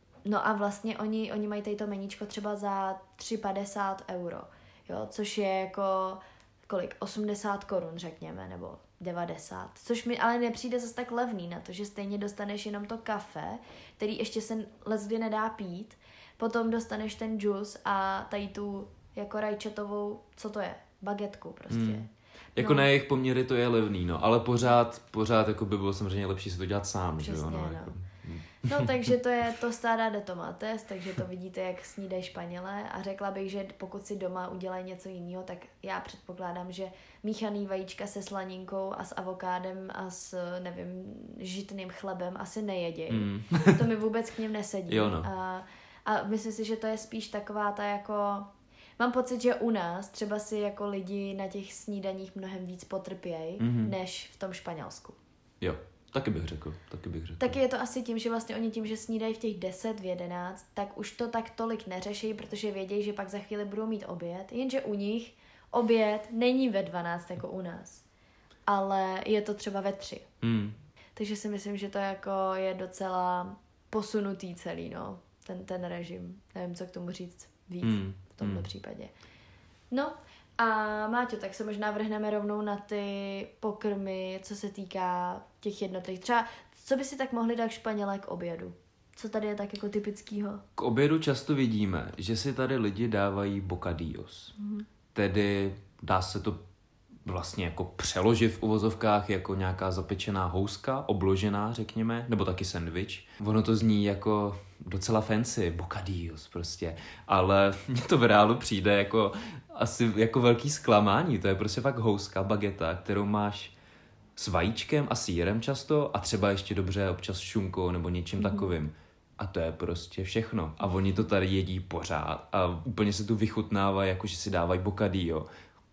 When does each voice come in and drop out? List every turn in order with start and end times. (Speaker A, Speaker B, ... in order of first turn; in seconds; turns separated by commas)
Speaker A: 0.2-22.9, Speaker B: 21.7-22.0, Speaker B: 22.6-29.1, Speaker A: 27.2-27.9, Speaker A: 28.6-55.2, Speaker B: 43.1-43.8, Speaker B: 44.9-45.3, Speaker B: 53.6-53.9, Speaker B: 55.6-57.5, Speaker A: 57.4-68.0, Speaker A: 68.7-70.3, Speaker B: 70.4-70.8, Speaker A: 71.2-79.1, Speaker B: 77.8-78.7, Speaker A: 79.9-90.6, Speaker B: 90.8-94.5, Speaker A: 94.5-94.8, Speaker B: 95.1-96.6, Speaker B: 97.2-113.7, Speaker B: 114.4-125.4, Speaker A: 118.4-118.7